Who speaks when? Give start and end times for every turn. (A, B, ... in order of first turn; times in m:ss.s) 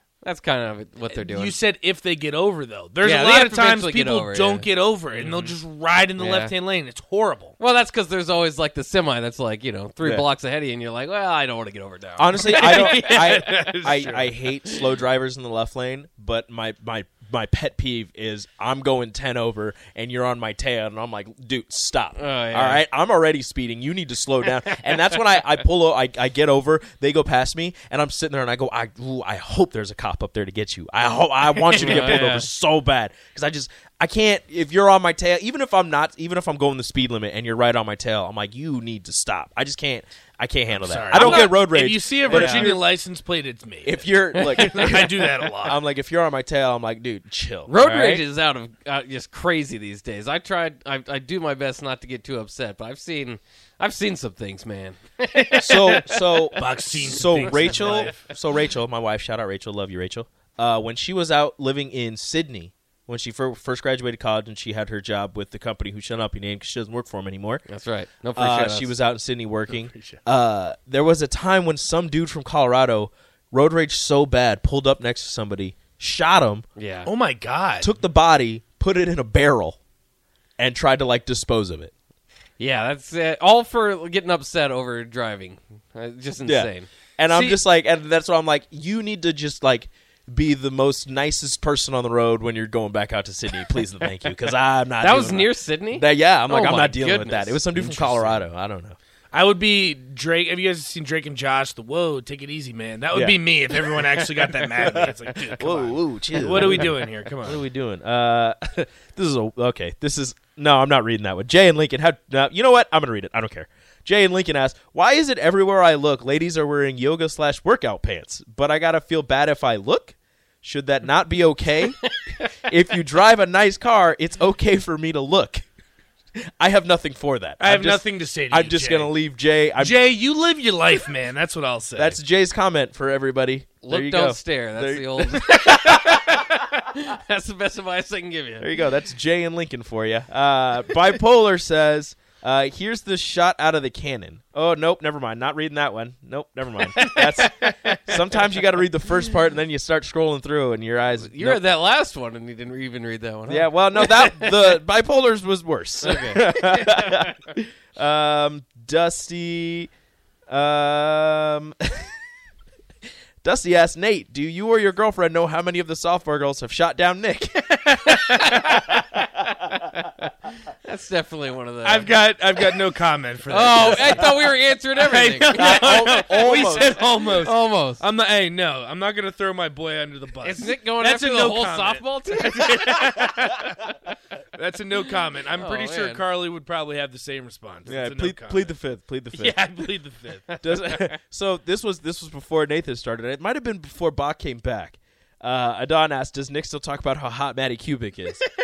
0:00.2-0:01.6 A
0:01.1-0:07.5 B
0:03.0-0:04.7 A
0:05.2-0:05.5 A
0:06.2-0:06.5 A
0:07.6-0:13.7 A
0:10.0-0:10.2 C
0:12.2-0:42.8 C
0:12.4-0:14.3 B
0:22.2-0:22.8 A
0:24.7-0:25.0 A
0:31.6-0:32.5 A
0:31.8-0:32.2 B
0:40.7-0:45.8 B
0:41.1-0:41.6 A
0:42.2-0:42.7 A
0:43.8-0:48.2 C
0:44.4-0:44.8 A
0:47.7-0:56.5 A
0:55.6-1:07.6 C
0:56.5-0:58.3 B
0:57.2-0:58.2 A
1:07.7-1:08.9 A
1:08.3-1:16.6 C
1:09.7-1:10.2 B
1:16.8-1:17.1 A
1:17.0-1:17.9 B
1:17.8-1:19.8 C
1:20.6-1:21.9 C
1:22.6-1:26.9 A
1:26.4-1:39.0 C
1:27.3-1:27.6 B
1:35.0-1:38.4 A
1:39.3-1:47.6 B
1:43.1-1:44.1 C
1:44.6-2:02.1 C
2:02.6-2:05.6 C
2:06.6-2:10.0 C
2:07.6-2:09.1 B
2:09.8-2:12.2 B
2:12.0-2:16.5 C
2:13.8-2:18.7 A
2:18.6-2:31.6 C
2:27.0-2:28.2 A
2:31.2-2:34.8 A
2:33.5-2:39.9 C
2:36.0-2:37.2 A
2:40.5-2:42.1 C
2:43.4-2:49.0 C
2:48.0-2:48.8 A
2:50.8-2:52.1 A
2:51.8-3:03.8 B
2:53.5-2:58.0 A
2:55.5-2:57.0 C
3:00.4-3:03.3 A
3:04.6-3:08.7 B
3:05.5-3:06.2 A
3:07.9-3:09.6 C
3:09.3-3:10.6 B
3:10.6-3:18.4 C